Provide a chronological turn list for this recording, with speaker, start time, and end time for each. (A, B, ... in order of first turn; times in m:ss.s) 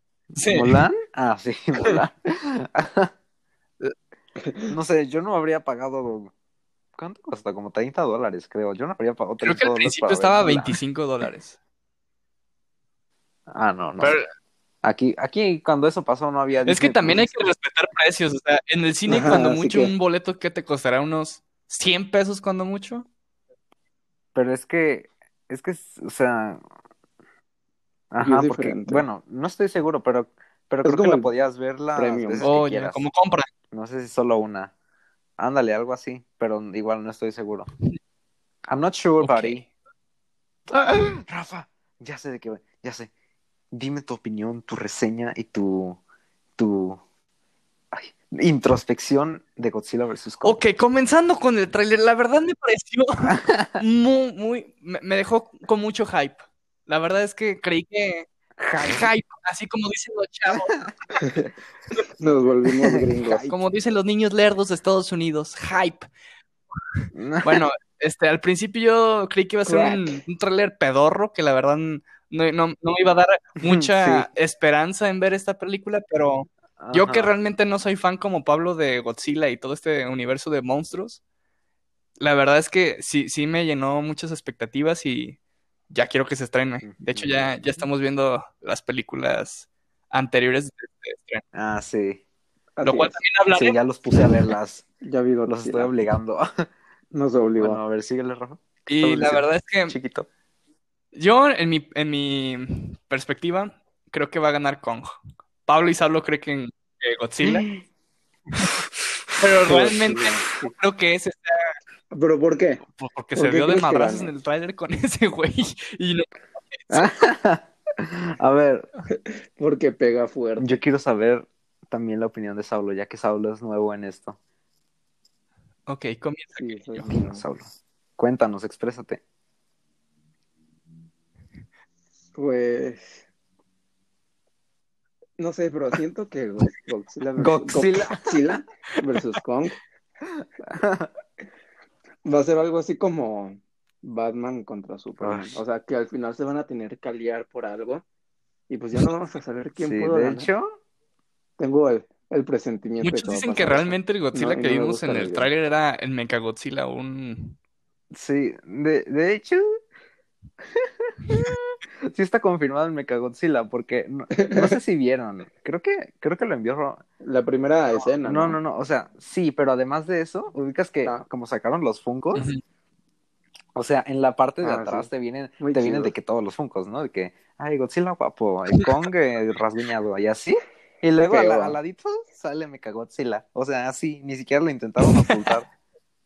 0:00.3-0:00.8 A
0:00.5-0:03.1 B
0:04.7-0:06.3 B
0:07.0-0:10.8 B
0:09.4-0:11.6 A
0:13.5-0:14.2 B
0:14.0-0:14.3 A
0:14.8-0:17.3 B
0:16.6-0:23.1 A
0:19.1-0:19.9 C
0:24.3-0:26.6 B
0:28.1-0:33.0 B
0:28.2-0:29.0 C
0:30.8-0:31.3 C
0:31.9-0:32.5 C
0:32.4-0:33.5 A
0:33.7-0:34.7 B
0:35.4-0:37.7 B
0:38.7-0:39.6 B
0:39.2-0:39.7 A
0:40.7-0:43.1 B
0:43.7-0:46.0 B
0:46.6-0:47.0 B
0:47.9-0:50.6 B
0:50.4-1:01.2 A
0:53.3-0:53.8 B
0:58.6-0:59.1 B
1:00.5-1:00.9 B
1:01.2-1:01.5 C
1:02.2-1:03.5 C
1:02.8-1:03.4 B
1:03.5-1:06.1 A
1:07.1-1:07.6 B
1:07.4-1:21.2 A
1:09.7-1:10.0 C
1:13.6-1:14.3 B
1:16.8-1:17.3 B
1:22.2-1:25.4 A
1:25.9-1:31.4 A
1:26.8-1:27.5 B
1:31.5-1:32.2 B
1:32.8-1:33.2 C
1:32.8-1:34.3 A
1:33.5-1:34.8 B
1:35.0-1:35.9 C
1:35.5-1:36.7 B
1:37.1-1:37.8 C
1:37.6-1:40.3 B
1:38.9-1:40.0 A
1:41.1-1:47.7 A
1:47.4-1:47.8 B
1:49.4-1:51.7 A
1:49.7-1:50.7 C
1:52.1-1:52.8 C
1:52.9-1:57.0 A
1:53.4-1:54.3 C
1:56.9-1:58.9 B
1:59.1-2:00.8 C
2:00.6-2:04.4 B
2:05.9-2:07.1 A
2:06.6-2:07.4 C
2:07.1-2:09.2 B
2:12.4-2:13.2 C
2:15.4-2:19.8 C
2:17.4-2:18.6 B
2:20.4-2:21.1 B
2:22.2-2:28.0 C
2:25.2-2:25.6 B
2:28.7-2:30.5 C
2:29.8-2:30.7 B
2:31.6-2:35.5 C
2:33.0-2:37.6 A
2:38.1-2:39.7 B
2:40.6-2:47.0 B
2:44.3-2:44.8 C
2:47.2-2:48.6 C
2:48.0-2:52.5 B
2:52.3-2:52.6 A
2:53.7-3:05.7 B
2:54.6-2:56.1 C
3:01.2-3:01.8 C
3:05.0-3:05.4 A